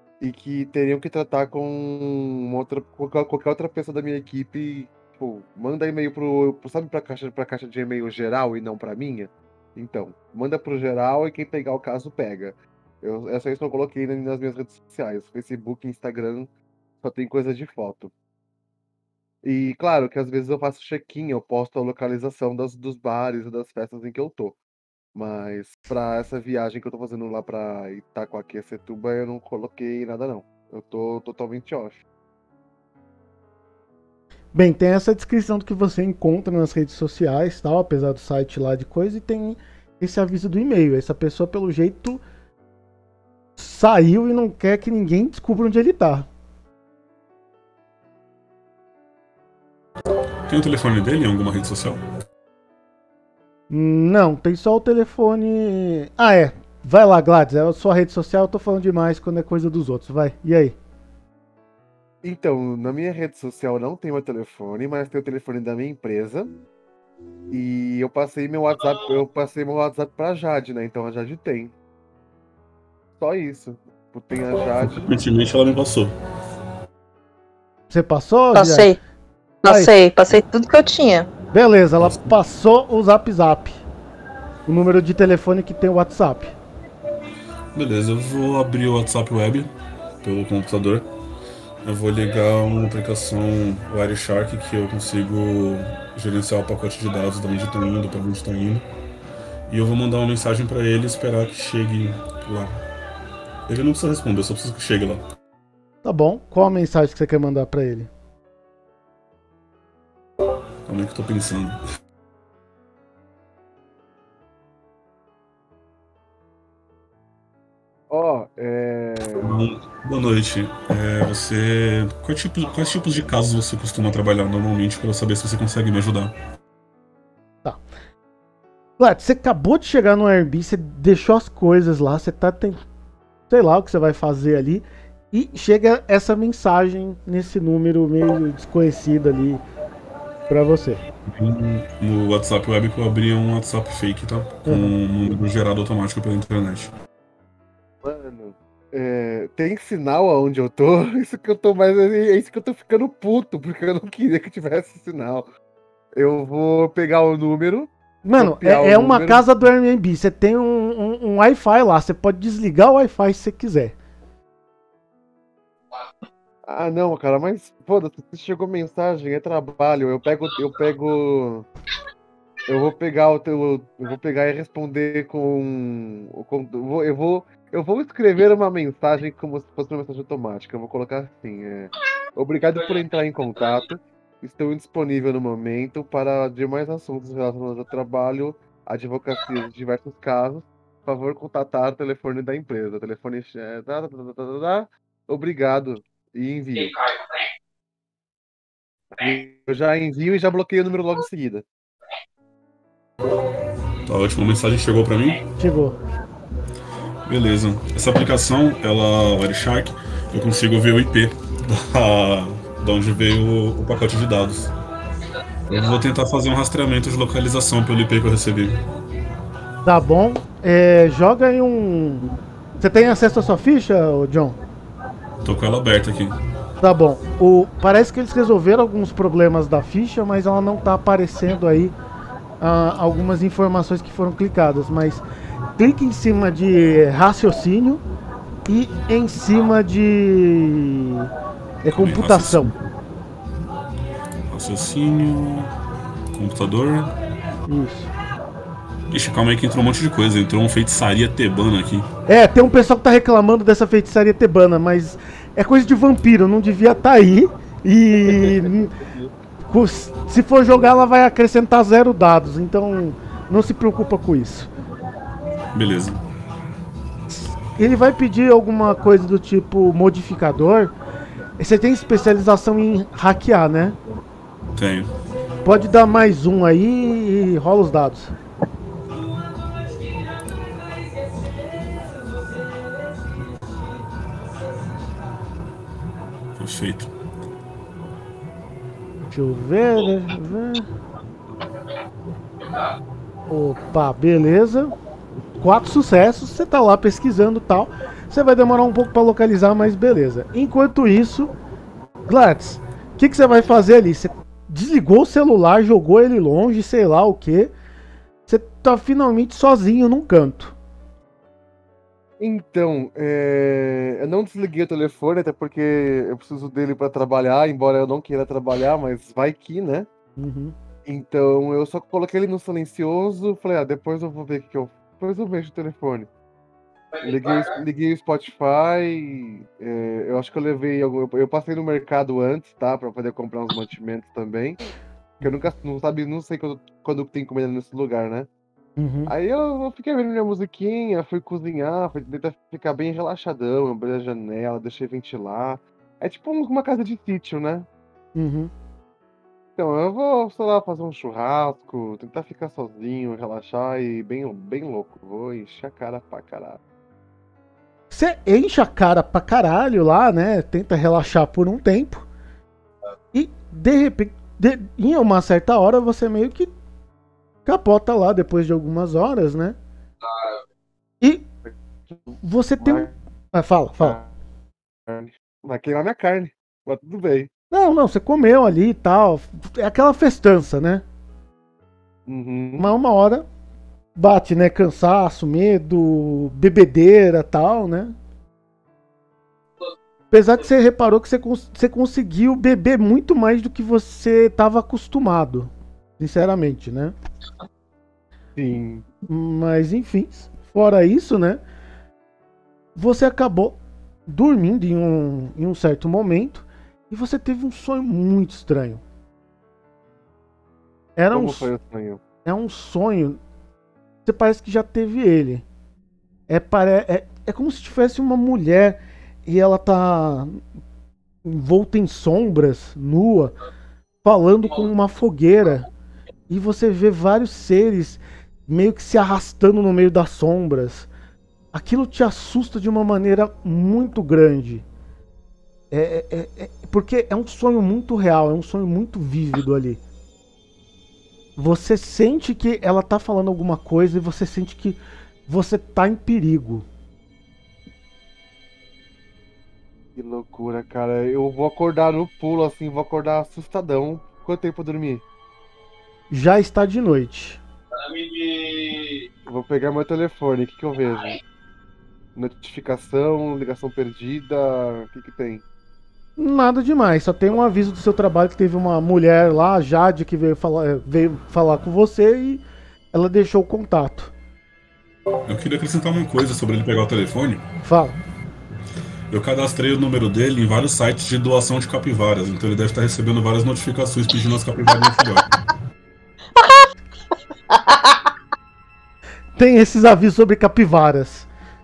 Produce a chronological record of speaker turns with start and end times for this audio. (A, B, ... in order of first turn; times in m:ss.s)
0:00.2-0:16.5 A
0:17.0-0:18.1 A
0:19.4-0:24.6 A
0:25.1-0:32.0 A
0:34.5-0:42.2 B
0:43.6-0:46.3 B
0:50.5-0:52.0 C
0:53.7-1:00.8 B
1:02.2-1:06.5 A
1:07.5-1:11.7 A
1:13.2-1:15.1 A
1:14.8-1:16.1 C
1:17.9-1:18.9 B
1:18.5-1:19.0 D
1:19.6-1:21.3 D
1:19.6-1:19.9 B
1:21.5-1:23.8 B
1:22.0-1:22.3 C
1:24.6-1:26.5 B
1:27.7-1:29.7 C
1:30.2-1:31.1 C
1:31.8-1:38.8 C
1:39.7-1:42.7 C
1:43.7-1:45.2 C
1:46.0-1:48.1 B
1:50.8-1:51.8 C
1:58.1-1:59.6 A
1:59.4-2:06.3 C
2:09.0-2:12.8 B
2:13.5-2:19.6 B
2:20.5-2:21.0 B
2:21.3-2:26.9 C
2:24.6-2:24.9 B
2:28.0-2:35.5 A
2:36.1-2:39.5 A
2:38.2-2:43.9 B
2:46.6-2:51.7 A
2:52.7-3:17.0 A
3:19.1-3:21.6 A
3:24.0-3:25.4 C
3:25.6-3:26.0 B
3:27.2-3:34.7 C
3:35.7-3:38.8 C
3:39.8-3:44.6 B
3:45.4-3:46.4 C
3:46.8-3:51.9 B
3:52.6-3:55.2 B
3:55.8-3:58.0 B
3:58.7-4:01.3 B
4:01.8-4:02.7 B
4:01.9-4:02.8 C
4:04.5-4:05.7 C
4:06.3-4:07.1 C
4:07.7-4:08.1 B
4:09.1-4:12.1 C
4:12.3-4:18.9 B
4:18.3-4:19.3 A
4:19.7-4:24.7 B
4:25.7-4:26.2 C
4:27.8-4:30.9 B
4:31.6-4:34.0 B
4:34.7-4:35.1 C
4:35.6-4:38.3 B
4:46.6-4:47.1 C
4:49.3-4:50.9 B
4:53.5-4:54.9 B
4:55.6-5:01.5 B
5:02.3-5:07.7 B
5:08.5-5:10.8 B
5:12.4-5:20.1 A
5:20.4-5:20.7 B
5:21.0-5:26.3 A
5:27.2-5:34.8 A
5:35.4-5:38.5 A
5:39.0-5:39.3 B
5:39.3-5:47.9 A
5:48.4-5:48.7 B
5:49.8-5:56.8 A
5:58.1-6:02.3 B
6:03.3-6:06.7 B
6:07.6-6:09.8 B
6:11.2-6:11.4 B
6:11.6-6:12.2 A
6:12.4-6:14.2 B
6:12.8-6:13.1 A
6:14.0-6:14.3 A
6:15.0-6:17.5 A
6:17.7-6:21.0 B
6:22.3-6:22.9 A
6:22.8-6:23.4 B
6:24.2-6:28.1 B
6:30.3-6:37.1 B
6:38.6-6:39.0 A
6:39.3-6:41.6 B
6:42.9-6:49.0 B
6:51.2-6:51.7 B
6:51.3-6:52.2 A
6:52.4-6:53.4 B
6:54.2-6:55.6 B
6:56.5-7:00.6 B
7:01.4-7:03.5 B
7:04.2-7:05.9 B
7:06.5-7:11.1 B
7:11.7-7:14.8 B
7:15.9-7:20.0 B
7:21.6-7:26.8 B
7:30.2-7:35.2 A
7:36.3-7:37.6 B
7:39.5-7:41.4 A
7:42.3-7:45.6 A
7:46.4-7:54.3 B
7:55.4-7:57.6 C
7:57.8-7:58.2 B
7:59.3-8:05.5 C
8:06.6-8:06.8 D
8:07.7-8:08.3 D
8:09.6-8:11.5 B